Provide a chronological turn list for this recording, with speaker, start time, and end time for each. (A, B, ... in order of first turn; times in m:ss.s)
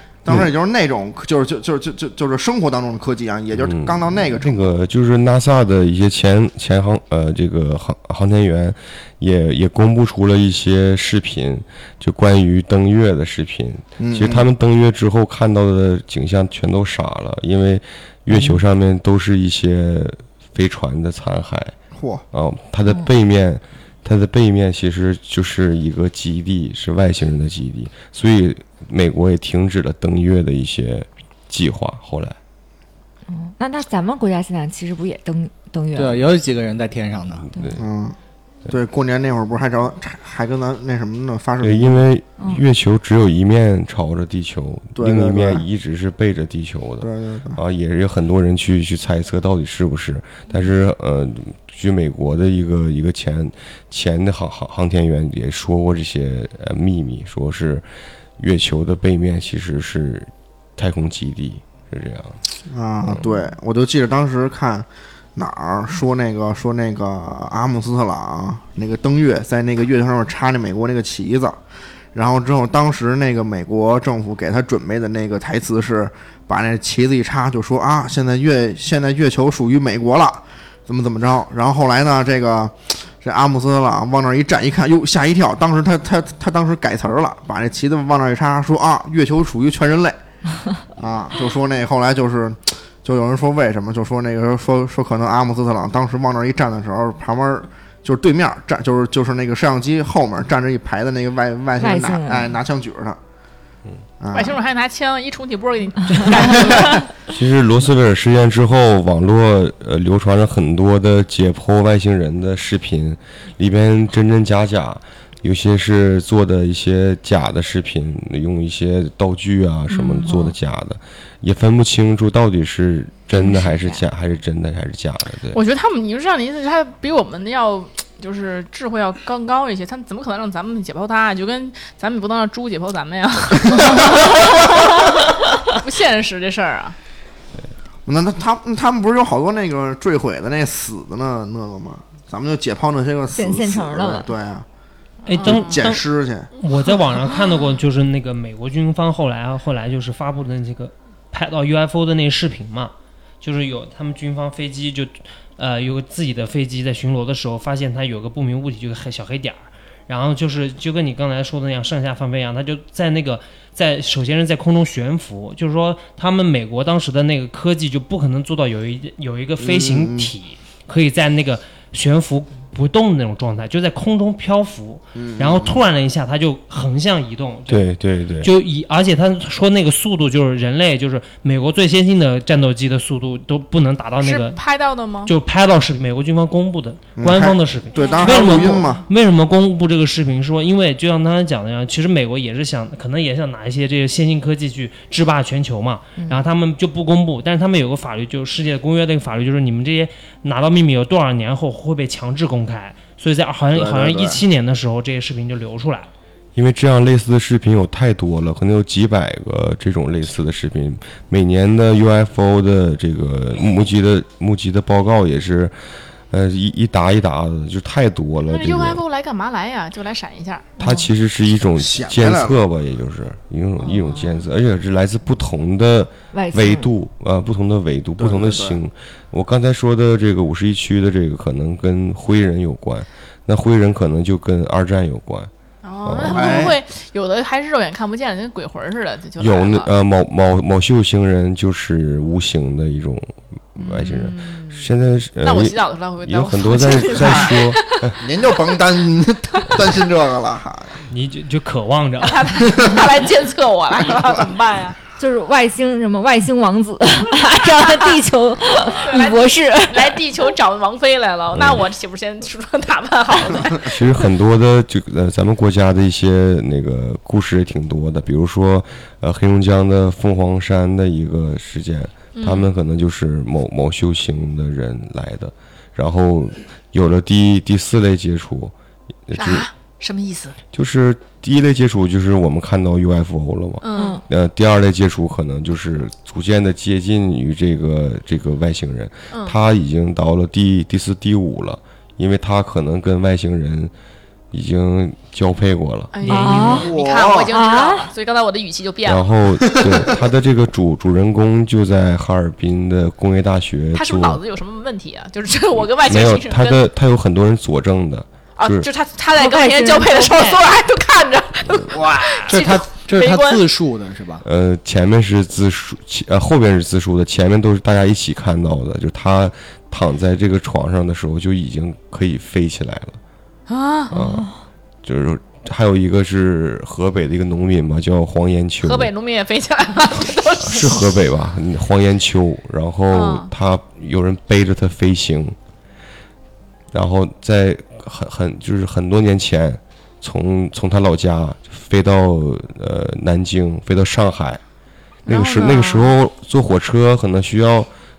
0:00.2-0:04.7 A
0:03.6-0:21.8 B
0:14.0-0:14.5 A
0:18.3-0:18.6 C
0:22.0-0:22.2 A
0:22.3-0:32.4 B
0:33.3-0:36.3 C
0:36.0-0:37.6 D
0:37.8-0:38.2 A
0:38.7-0:42.0 A
0:41.6-0:57.8 B
0:45.0-0:45.6 A
0:47.0-0:47.6 A
0:58.4-1:02.4 B
1:02.7-1:11.6 A
1:12.1-1:30.2 A
1:31.0-1:43.2 A
1:41.8-1:42.6 C
1:44.2-1:44.6 A
1:44.3-1:47.1 E
1:47.3-2:05.6 B
1:59.9-2:00.4 E
2:00.1-2:00.5 C
2:03.4-2:04.0 C
2:05.5-2:17.0 E
2:13.7-2:14.5 A
2:18.1-2:24.7 A
2:23.3-2:24.3 C
2:25.3-2:26.0 F
2:25.3-2:25.8 E
2:25.4-2:26.5 A
2:26.6-3:04.6 F
2:49.6-2:50.3 A
2:55.2-2:55.8 A
2:57.7-2:58.5 B
3:04.2-3:05.3 E
3:05.3-3:26.1 F
3:07.2-3:09.0 A
3:08.0-3:08.8 E
3:23.7-3:24.4 A
3:26.6-3:35.8 B
3:36.3-3:39.0 B
3:38.5-3:40.7 E
3:40.8-3:41.1 C
3:40.8-3:55.5 B
3:41.8-3:42.6 A
3:46.3-3:46.9 C
3:48.2-3:48.8 A
3:55.8-3:59.9 E
3:56.0-3:56.7 B
3:56.3-3:56.8 A
3:59.4-4:08.2 B
4:03.8-4:04.9 E
4:05.4-4:08.2 E
4:07.1-4:07.6 A
4:08.2-4:11.0 A
4:11.1-4:12.7 F
4:12.2-4:15.0 E
4:12.7-4:13.0 A
4:15.2-4:20.2 C
4:18.9-4:24.0 E
4:21.6-4:21.8 B
4:23.8-4:38.7 B
4:32.4-4:32.7 E
4:39.3-4:39.7 B
4:39.3-4:40.6 E
4:40.7-4:53.9 B
4:43.8-4:44.2 E
4:44.0-4:44.2 C
4:49.3-4:49.6 E
4:54.5-4:56.5 B
4:56.1-4:59.3 E
4:56.3-4:56.9 C
4:56.9-4:57.2 D
4:57.0-4:57.5 A
4:57.5-4:58.1 C
4:59.0-5:04.4 B
4:59.7-5:00.1 A
5:03.9-5:06.8 E
5:06.0-5:08.9 B
5:08.6-5:13.7 E
5:09.4-5:10.6 C
5:12.3-5:14.4 D
5:14.4-5:23.2 B
5:23.7-5:24.1 E
5:24.1-5:24.6 C
5:24.1-5:24.5 B
5:25.0-5:29.1 B
5:28.8-5:31.1 E
5:30.6-5:35.6 B
5:33.1-5:33.5 E
5:36.9-5:44.6 B
5:45.2-5:46.2 E
5:45.3-5:47.9 B